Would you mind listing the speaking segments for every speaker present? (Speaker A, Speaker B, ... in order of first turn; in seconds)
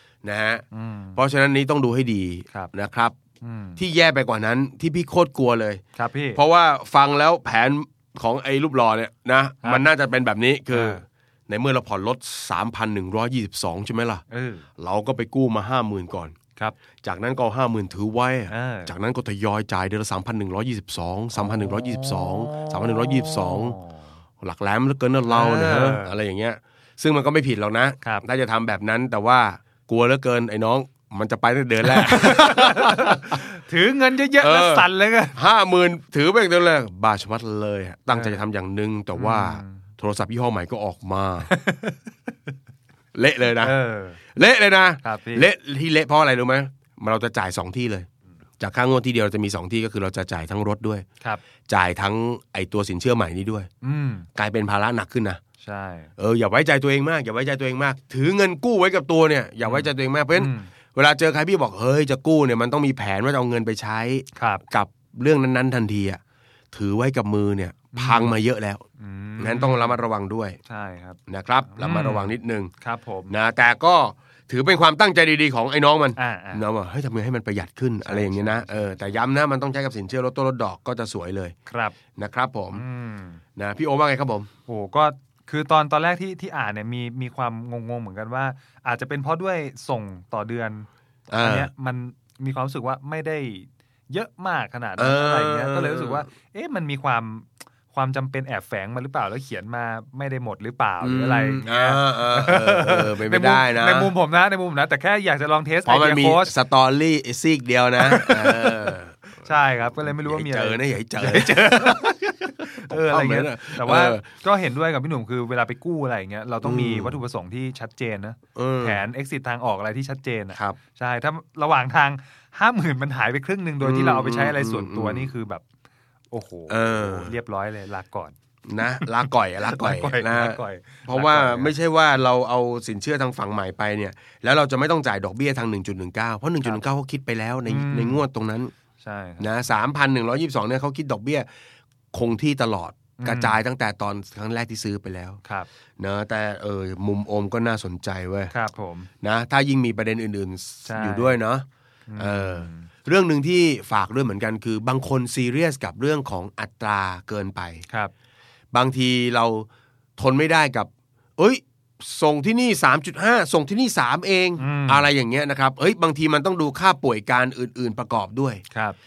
Speaker A: 0.2-0.6, 1.1-3.1, 3.8-5.8, 6.3-14.2, 14.8-16.4, 17.0-23.8, 24.4-33.4, 34.4-41.5, 43.1-43.8, 44.3-48.1, 48.6-51.0, 51.7-53.7, 54.4-55.4, 56.2-66.2, 66.7-68.8, 69.4-70.6, 71.3-72.7, 73.3-81.5, 82.2-82.8, 83.6-84.5, 91.3-91.7, 95.0-96.3, 101.0-104.1, 105.8-109.2, 110.0-114.3, 116.6-117.2, 118.5-119.1, 123.8-125.3, 126.7-127.4, 128.7-138.7, 139.4-141.5, 142.1-145.4, 146.0-148.5, 149.2-151.7, 152.2-157.8, 158.7-159.7, 160.2-168.6
Speaker B: 0.7-1.2, 3.4-3.8, 6.0-6.4, 10.7-11.0, 14.3-14.7, 18.5-18.9, 21.4-24.0, 25.3-26.1, 31.9-35.4, 38.1-38.4, 39.1-39.8, 41.5-42.0, 43.6-44.2, 45.0-45.5, 53.8-54.3, 55.6-56.1, 59.6-60.7, 64.3-64.6, 67.9-68.4, 69.0-70.0, 70.7-71.2, 71.7-73.3, 76.2-76.6, 78.0-79.2, 81.7-82.0, 82.7-83.4, 84.7-106.5, 108.0-125.6, 126.3-128.3, 128.9-131.8, 137.7-138.2, 139.0-139.5, 143.2-143.6, 148.5-149.1, 150.9-151.4, 152.1-152.9, 164.6-165.1, 168.7-169.0